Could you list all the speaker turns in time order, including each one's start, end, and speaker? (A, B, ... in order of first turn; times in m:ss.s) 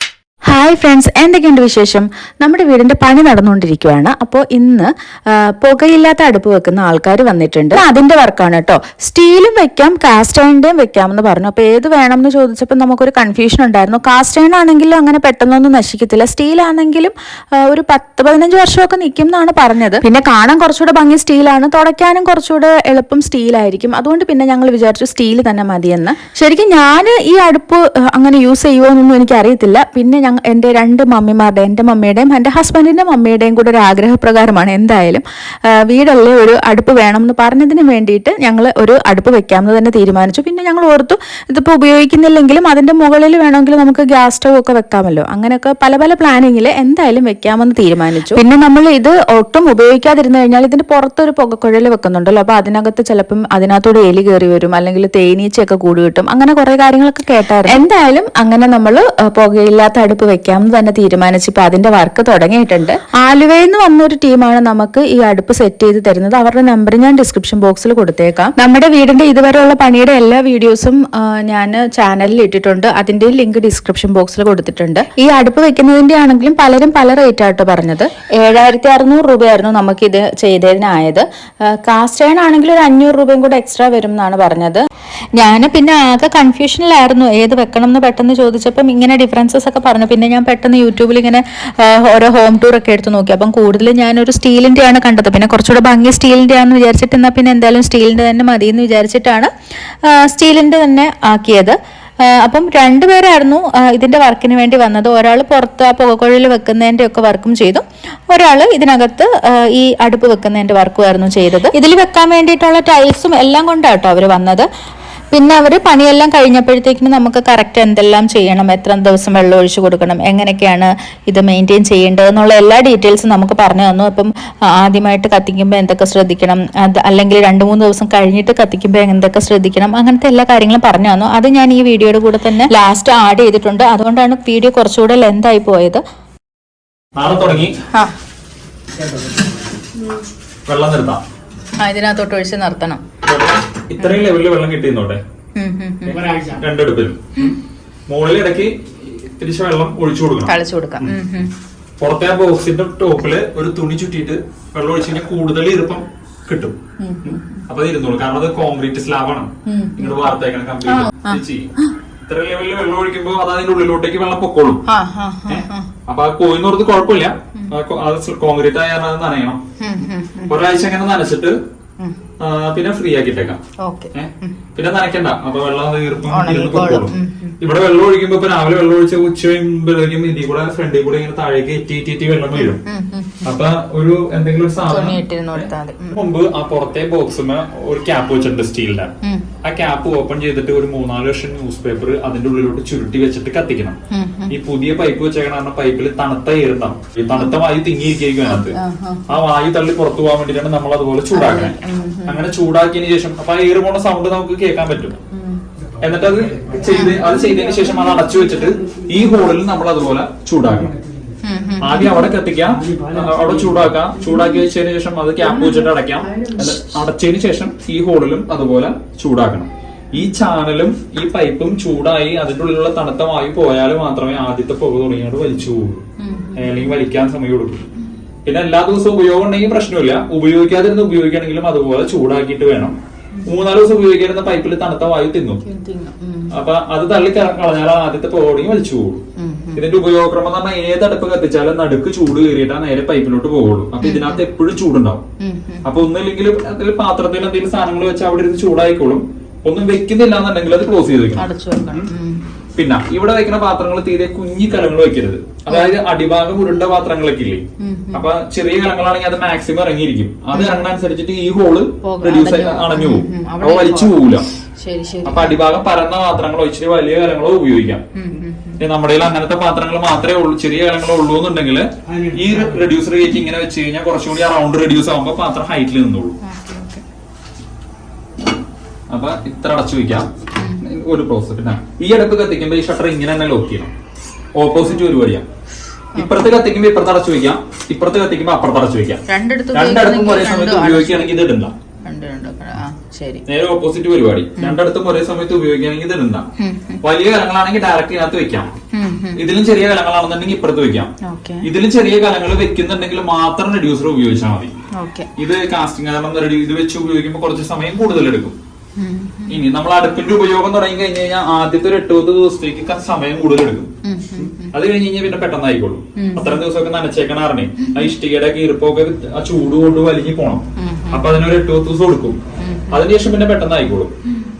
0:00.4-1:24.8 A
1:25.4-1:39.5 B
1:40.0-1:54.7 B
1:55.3-2:16.0 B
2:17.2-2:17.8 C
2:20.7-2:21.2 C
2:21.8-2:23.0 B
2:23.2-2:25.2 C
2:25.6-2:26.3 B
2:26.3-2:27.6 C
2:28.1-2:31.2 C
2:30.5-2:31.5 B
2:32.0-2:41.7 C
2:37.0-2:37.6 B
2:39.7-2:40.2 B
2:40.9-2:41.4 B
2:42.2-2:44.8 C
2:44.9-2:45.9 B
2:45.5-2:51.6 C
2:49.8-2:50.5 B
2:52.4-2:53.6 C
2:53.8-2:54.5 B
2:54.1-3:02.8 C
2:56.3-2:57.5 B
3:02.6-3:03.4 B
3:03.4-3:14.0 C
3:04.8-3:06.1 B
3:14.1-3:14.5 B
3:14.5-3:25.2 C
3:18.4-3:19.2 B
3:21.3-3:22.4 B
3:26.0-3:30.9 C
3:26.9-3:27.2 B
3:31.5-3:32.1 B
3:31.8-3:46.0 C
3:46.2-3:46.7 B
3:46.6-3:47.8 C
3:48.4-3:55.6 C
3:55.6-3:56.5 B
3:56.5-3:59.2 C
3:59.4-3:59.8 B
3:59.7-4:05.2 C
4:04.0-4:04.4 B
4:05.4-4:05.8 B
4:05.8-4:12.1 C
4:11.4-4:12.4 B
4:12.8-4:24.5 C
4:15.7-4:15.9 B
4:17.8-4:18.2 B
4:20.5-4:20.8 B
4:22.0-4:24.2 B
4:24.8-4:25.5 B
4:25.2-4:28.0 C
4:28.2-4:28.8 B
4:28.8-4:36.4 C
4:36.4-4:37.0 B
4:39.1-4:40.3 C
4:40.6-4:40.8 B
4:40.8-4:43.9 C
4:44.6-4:45.4 C
4:46.2-4:49.2 C
4:49.3-4:51.4 B
4:49.7-4:51.7 C
4:52.0-4:53.4 B
4:53.5-4:56.4 C
4:56.6-4:57.0 B
4:57.0-4:58.7 C
4:58.9-4:59.4 B
4:59.3-5:04.7 C
5:01.2-5:01.6 B
5:04.9-5:05.3 B
5:05.4-5:08.6 C
5:09.0-5:09.6 B
5:09.5-5:24.1 C
5:14.0-5:14.6 B
5:16.2-5:16.5 B
5:20.8-5:21.2 B
5:22.6-5:23.0 B